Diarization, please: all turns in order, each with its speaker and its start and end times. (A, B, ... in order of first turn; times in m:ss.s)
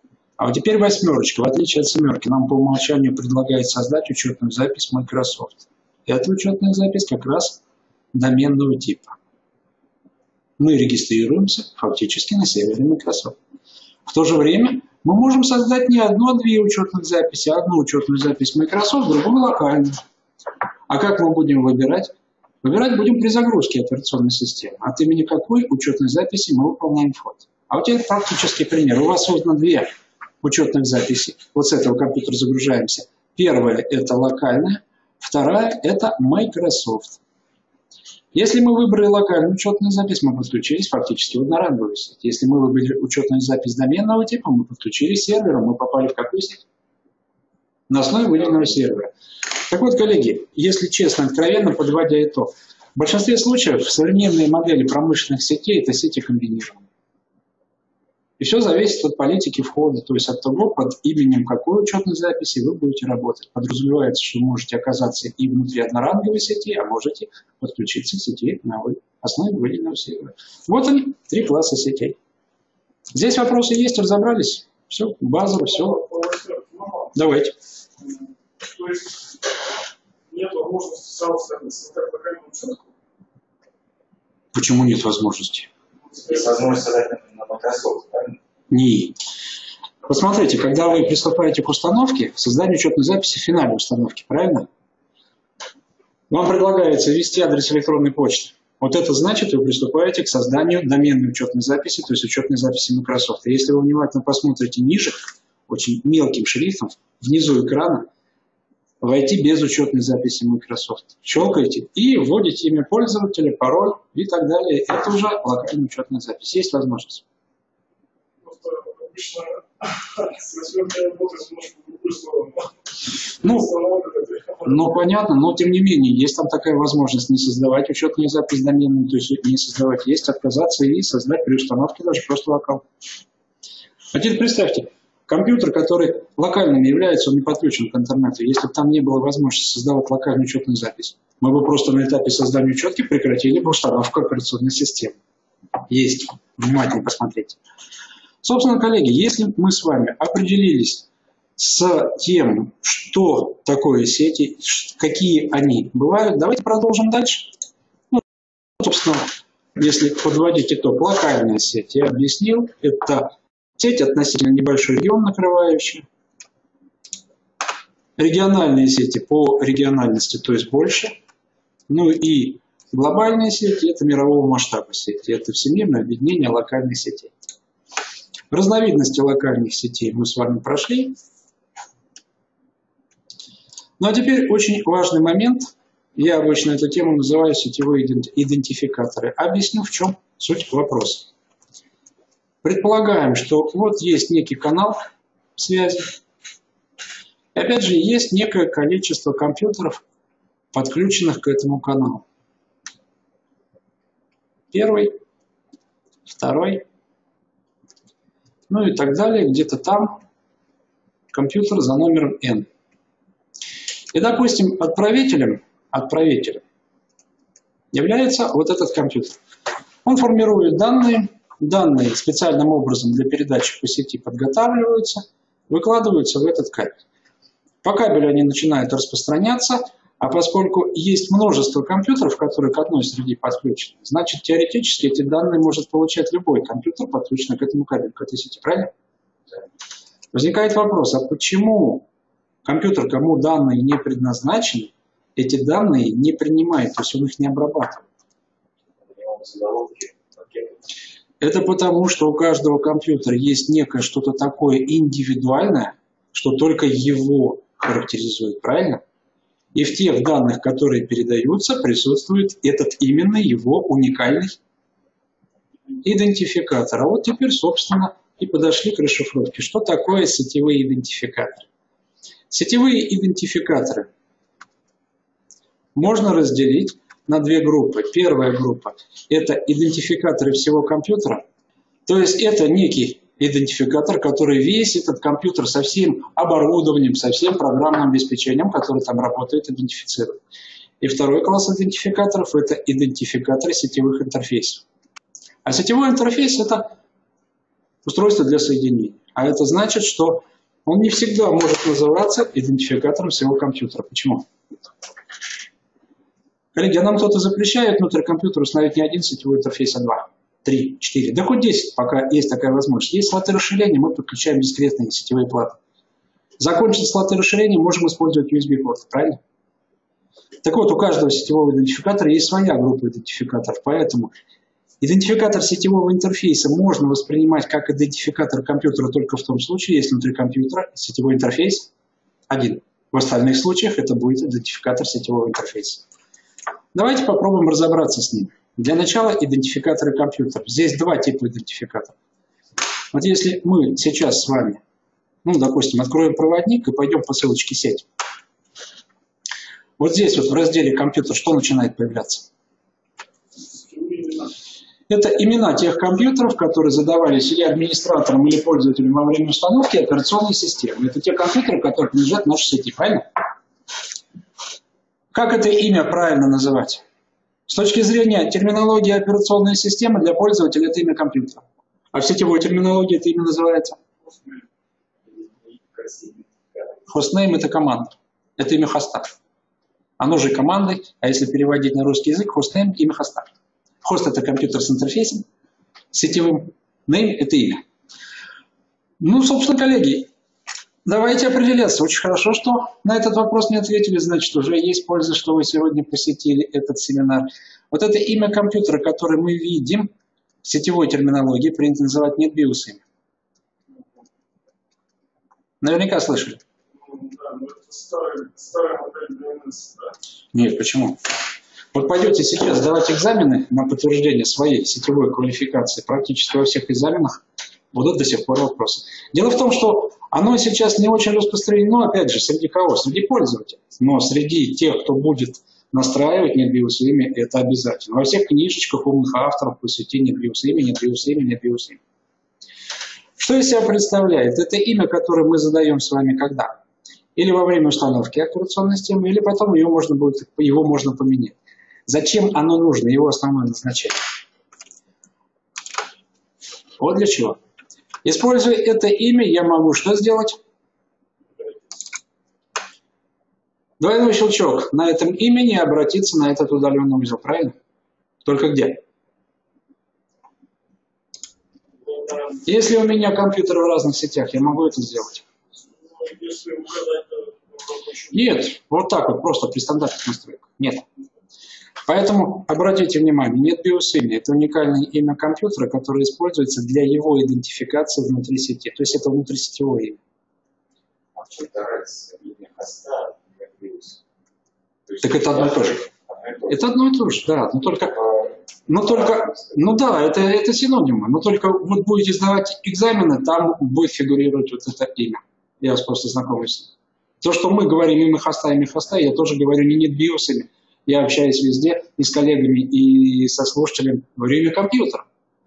0:00.4-0:07.6 A
0:08.1-0:09.2 A
0:10.6-0:13.4 A
0:14.1-0:20.0 A
0:20.9-0:22.1 A
0:22.6-0:29.9 A
0:30.4-0:37.2 A
0:38.3-0:46.6 A
0:47.9-0:49.1 A
0:49.7-0:56.8 A
0:58.4-1:12.2 A
1:13.1-1:16.0 A
1:15.7-1:17.2 B
1:17.2-1:17.5 A
1:18.6-1:19.4 B
1:20.3-1:22.8 B
1:24.5-1:25.7 A
1:26.2-1:28.4 C
1:28.7-1:29.2 A
1:30.1-1:34.7 A
1:36.3-1:48.1 A
1:49.0-1:57.2 A
1:58.4-2:02.8 B
2:03.4-2:03.7 A
2:03.4-2:04.9 B
2:04.6-2:12.8 A
2:14.1-2:25.2 A
2:25.9-2:27.6 A
2:28.4-2:37.5 A
2:38.8-2:46.0 A
2:48.2-2:51.2 A
2:51.9-2:57.3 A
2:58.5-3:01.2 A
3:04.0-3:11.3 A
3:12.6-3:15.0 A
3:15.6-3:16.2 A
3:17.5-3:20.0 A
3:20.7-3:22.2 A
3:24.7-3:25.2 A
3:26.3-3:26.8 A
3:28.7-3:30.2 A
3:31.3-3:32.7 A
3:34.1-3:36.6 A
3:37.9-3:39.4 A
3:40.0-3:47.0 A
3:47.8-3:58.9 A
4:00.3-4:02.1 A
4:02.6-4:08.0 A
4:09.0-4:10.7 C
4:11.4-4:19.0 A
4:19.7-4:24.6 A
4:26.0-4:31.7 A
4:32.5-4:34.1 A
4:36.0-4:41.4 A
4:42.1-4:50.4 A
4:51.0-4:54.8 A
4:55.6-4:56.9 A
4:58.0-5:04.5 A
5:06.7-5:15.8 A
5:16.6-5:19.4 A
5:20.6-5:24.3 A
5:25.0-5:31.9 A
5:32.5-5:36.0 A
5:36.9-5:42.2 A
5:43.1-5:44.8 A
5:45.4-5:48.1 A
5:50.0-5:52.5 A
5:53.7-5:54.5 B
5:55.1-6:03.2 A
6:05.3-6:07.0 A
6:07.7-6:14.0 A
6:15.3-6:16.8 C
6:17.1-6:19.3 A
6:20.2-6:23.5 A
6:24.0-6:25.4 A
6:26.1-6:27.8 A
6:29.2-6:30.3 A
6:31.0-6:40.1 A
6:40.6-6:43.0 A
6:45.8-6:46.6 A
6:47.0-6:50.2 B
6:50.5-6:51.2 A
6:51.9-7:12.0 A
7:13.4-7:16.8 A
7:17.4-7:21.6 A
7:22.1-7:24.2 A
7:27.0-7:27.6 A
7:28.2-7:30.6 A
7:34.0-7:37.8 A
7:38.4-7:39.0 A
7:42.1-7:42.6 B
7:42.6-7:45.4 A
7:46.0-7:48.4 B
7:48.3-7:51.0 A
7:52.1-8:00.2 A
8:01.4-8:04.2 C
8:05.2-8:06.1 A
8:06.7-8:08.4 A
8:08.9-8:16.9 A
8:17.4-8:25.3 A